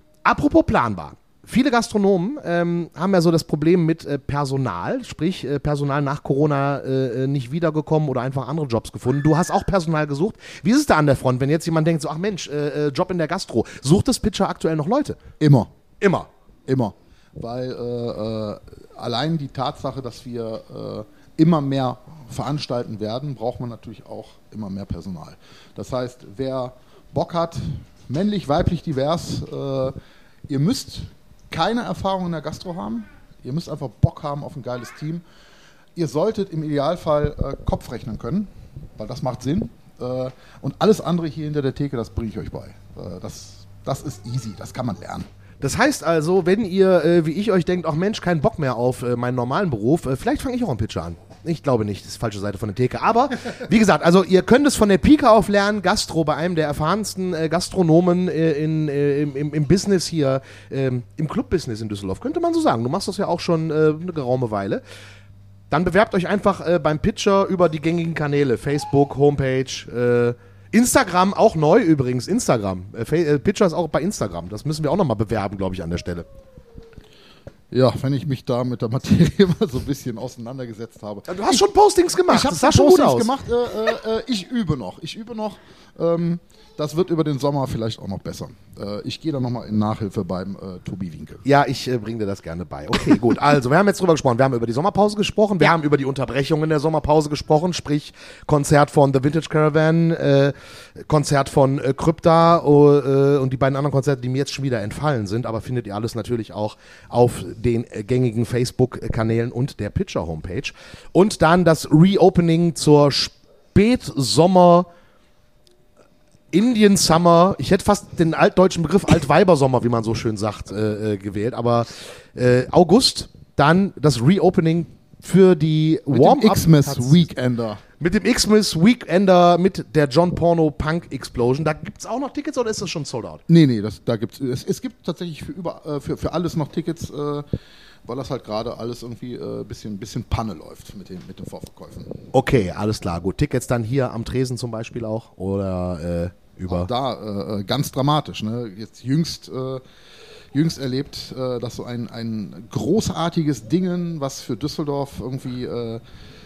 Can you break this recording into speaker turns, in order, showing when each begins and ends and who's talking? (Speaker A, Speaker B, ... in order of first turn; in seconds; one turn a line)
Speaker A: 0.2-15.2
Speaker B: 15.4-15.7
Speaker A: 16.0-16.3
Speaker B: 16.7-29.9
Speaker B: 30.5-35.2
Speaker B: 36.0-45.3
Speaker A: 45.6-64.8
Speaker A: 65.7-76.3
Speaker B: 77.7-81.6
Speaker A: 81.3-83.3
Speaker B: 82.3-91.4
Speaker A: 91.4-114.9
Speaker A: 116.5-127.3
Speaker B: 126.1-127.8
Speaker A: 128.0-133.4
Speaker B: 133.5-137.4
Speaker B: 138.0-142.3
Speaker A: 142.3-146.9
Speaker B: 146.7-149.8
Speaker B: 150.5-156.0